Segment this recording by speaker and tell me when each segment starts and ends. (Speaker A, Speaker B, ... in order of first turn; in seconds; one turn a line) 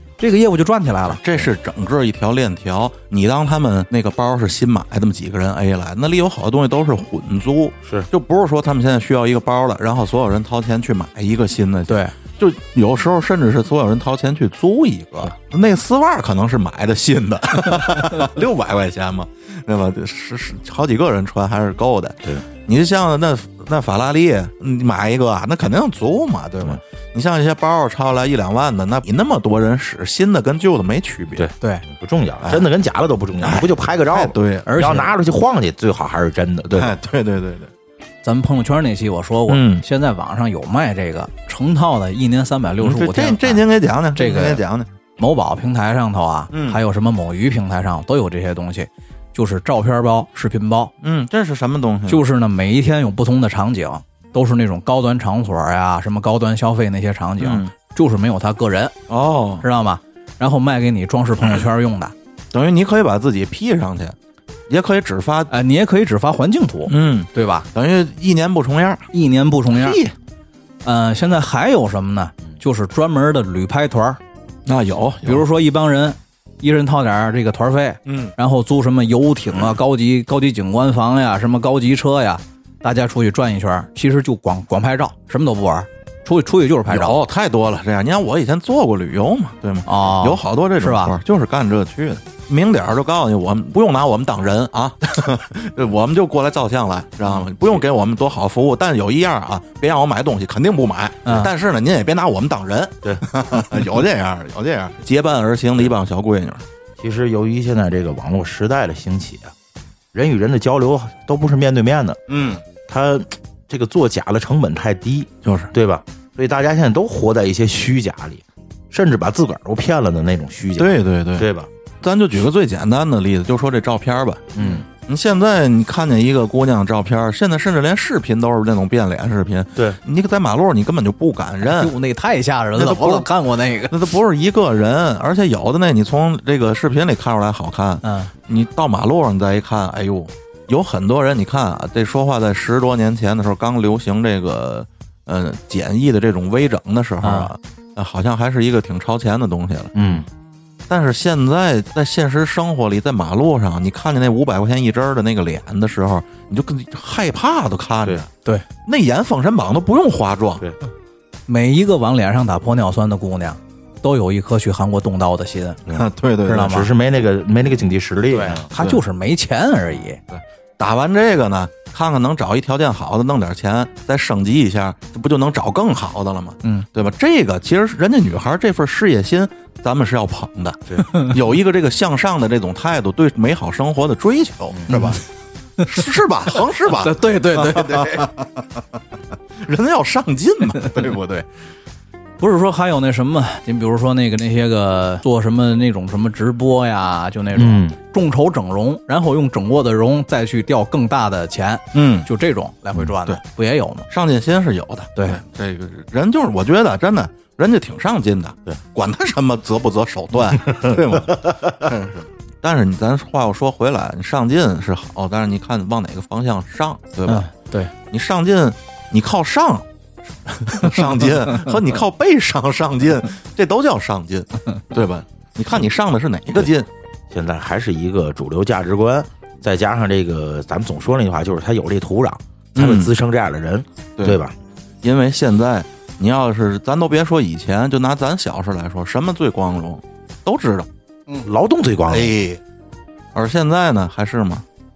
Speaker A: 0.2-1.2
Speaker B: 1.1-31.5
Speaker A: 11.9-12.1
Speaker C: 31.4-36.9
Speaker B: 33.4-34.7
Speaker A: 34.7-35.1
Speaker B: 36.7-37.7
Speaker A: 38.2-43.6
Speaker B: 39.5-39.8
Speaker B: 42.8-44.9
Speaker A: 44.2-44.6
Speaker A: 45.2-50.9
Speaker B: 46.5-46.8
Speaker B: 51.0-52.2
Speaker A: 52.1-59.0
Speaker B: 57.4-57.7
Speaker B: 59.1-59.6
Speaker A: 59.6-62.1
Speaker B: 62.5-64.2
Speaker B: 64.7-65.5
Speaker A: 65.5-67.7
Speaker B: 66.9-69.1
Speaker A: 69.1-70.0
Speaker B: 69.7-70.1
Speaker A: 70.8-74.2
Speaker B: 74.7-75.5
Speaker A: 75.2-87.2
Speaker B: 78.1-78.3
Speaker B: 86.9-106.6
Speaker A: 89.9-91.2
Speaker A: 101.2-101.5
Speaker C: 107.0-109.5
Speaker C: 110.1-112.2
Speaker B: 112.3-112.6
Speaker C: 112.9-121.7
Speaker B: 115.4-115.7
Speaker B: 120.8-121.5
Speaker B: 122.0-131.9
Speaker C: 124.5-124.9
Speaker A: 131.6-134.1
Speaker B: 132.8-133.3
Speaker B: 133.9-149.9
Speaker A: 138.0-138.3
Speaker A: 147.2-147.5
Speaker C: 149.9-150.3
Speaker B: 150.9-158.3
Speaker B: 158.9-160.6
Speaker A: 161.5-165.8
Speaker C: 165.9-168.7
Speaker B: 165.9-166.8
Speaker A: 166.5-166.9
Speaker A: 168.3-170.2
Speaker B: 170.4-185.2
Speaker A: 181.1-181.3
Speaker C: 184.7-185.1
Speaker A: 184.9-185.2
Speaker B: 185.8-188.8
Speaker A: 186.9-188.3
Speaker B: 189.6-191.5
Speaker A: 192.4-204.1
Speaker C: 197.6-198.0
Speaker B: 201.9-202.3
Speaker B: 203.2-203.4
Speaker B: 204.1-219.9
Speaker A: 205.2-205.4
Speaker C: 210.8-211.6
Speaker A: 217.3-217.9
Speaker B: 220.5-226.9
Speaker C: 227.3-234.6
Speaker B: 232.8-233.1
Speaker B: 235.0-240.9
Speaker C: 241.4-242.3
Speaker B: 242.1-242.6
Speaker B: 243.3-244.7